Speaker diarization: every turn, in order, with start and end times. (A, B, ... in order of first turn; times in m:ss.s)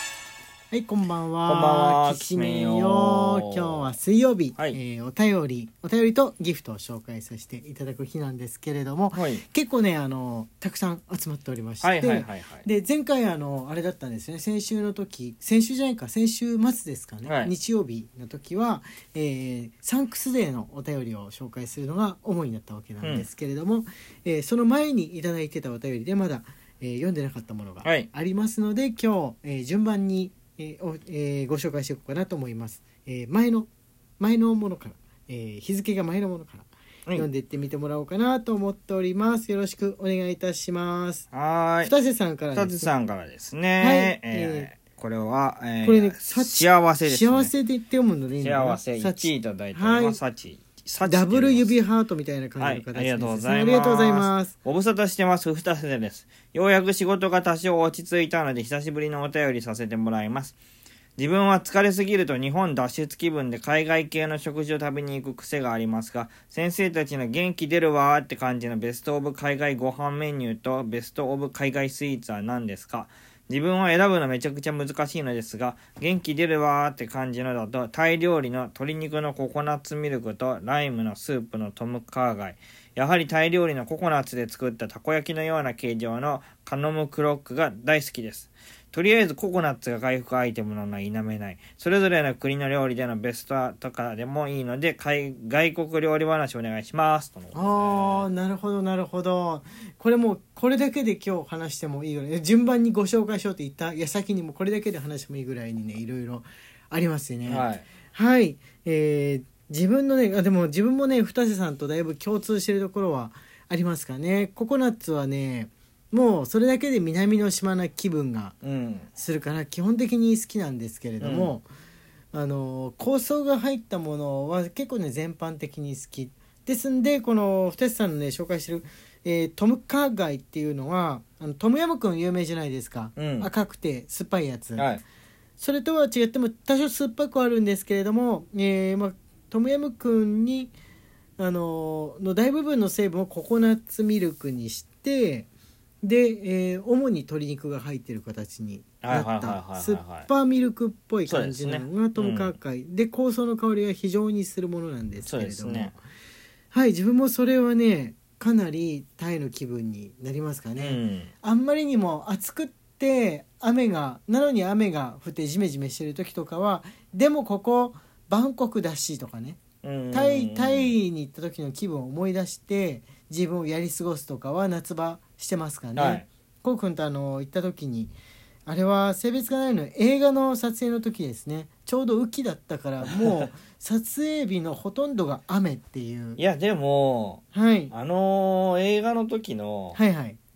0:00.7-0:41.3 A
0:01.4-0:03.9 B
0:09.1-0:09.4 B
0:11.8-0:12.6 B
0:17.2-0:17.5 B
0:41.3-0:41.9 B
0:41.8-0:42.9 A
0:42.5-0:47.5 B
0:43.8-0:44.7 A
0:45.8-0:50.2 A
0:48.4-0:51.8 B
0:51.0-0:54.5 A
0:52.6-1:00.6 B
1:01.2-1:38.3 B
1:37.5-1:58.6 A
1:47.5-1:47.8 B
1:58.6-1:59.1 B
1:59.2-2:01.7 A
2:01.2-2:01.5 B
2:02.3-2:14.9 A
2:13.2-2:13.5 B
2:14.8-2:15.0 B
2:15.6-2:20.7 A
2:21.4-2:25.5 A
2:26.0-2:36.0 A
2:29.0-2:30.3 B
2:31.3-2:32.5 B
2:35.3-2:35.9 B
2:36.7-2:58.1 A
2:40.8-2:41.3 B
2:49.8-2:50.9 B
2:56.0-2:56.3 B
2:58.6-3:06.4 A
3:03.0-3:03.4 B
3:06.4-3:10.0 B
3:07.5-3:07.9 A
3:09.9-3:10.4 A